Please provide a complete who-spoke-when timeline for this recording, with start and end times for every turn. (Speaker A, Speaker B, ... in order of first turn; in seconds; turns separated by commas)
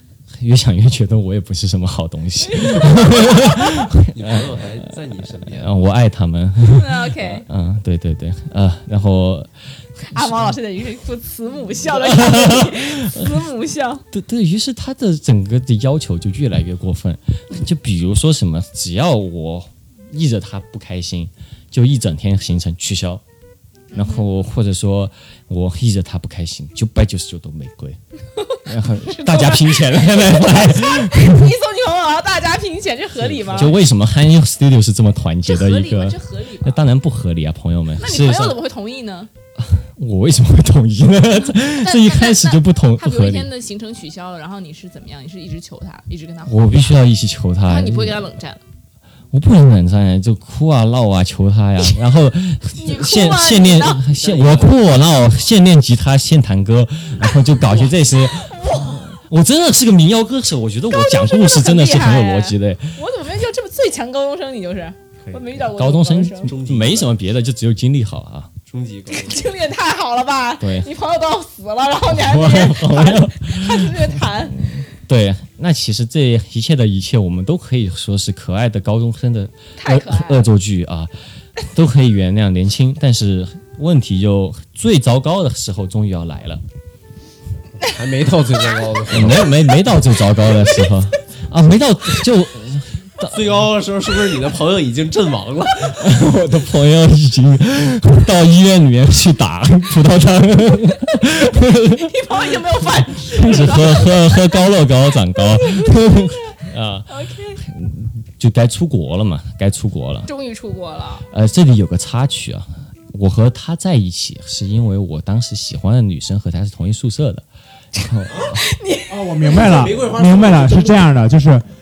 Speaker A: 0.4-4.4, Speaker B: 2.5-3.6, Speaker C: 4.1-5.8, Speaker A: 5.4-9.5, Speaker B: 6.7-7.4, Speaker B: 10.1-14.0, Speaker A: 10.1-10.5, Speaker A: 11.9-13.3, Speaker A: 14.1-23.2, Speaker B: 23.9-24.3, Speaker A: 23.9-28.0, Speaker B: 28.4-33.8, Speaker A: 28.6-31.5, Speaker C: 33.2-33.6, Speaker A: 33.5-38.6, Speaker B: 35.4-36.8, Speaker B: 38.0-39.3, Speaker A: 39.6-43.5, Speaker B: 41.6-46.7, Speaker A: 46.4-48.3, Speaker B: 47.6-48.6, Speaker A: 49.3-63.0, Speaker B: 52.8-54.0, Speaker C: 54.2-54.9, Speaker B: 57.6-59.0, Speaker B: 60.9-66.5, Speaker A: 65.6-68.5, Speaker C: 66.4-67.2, Speaker C: 68.7-69.5, Speaker B: 69.1-74.8, Speaker A: 70.6-70.9, Speaker A: 72.1-81.1, Speaker B: 79.8-80.5, Speaker A: 81.6-86.6, Speaker C: 87.8-89.5, Speaker A: 89.1-93.6, Speaker C: 93.2-96.1, Speaker A: 96.0-102.5, Speaker B: 102.0-104.7, Speaker A: 103.1-110.3, Speaker B: 105.5-106.4, Speaker B: 107.1-107.6, Speaker B: 110.3-111.2, Speaker A: 111.3-117.4, Speaker A: 118.0-118.6, Speaker B: 118.4-119.7, Speaker D: 119.1-121.7, Speaker C: 119.2-121.0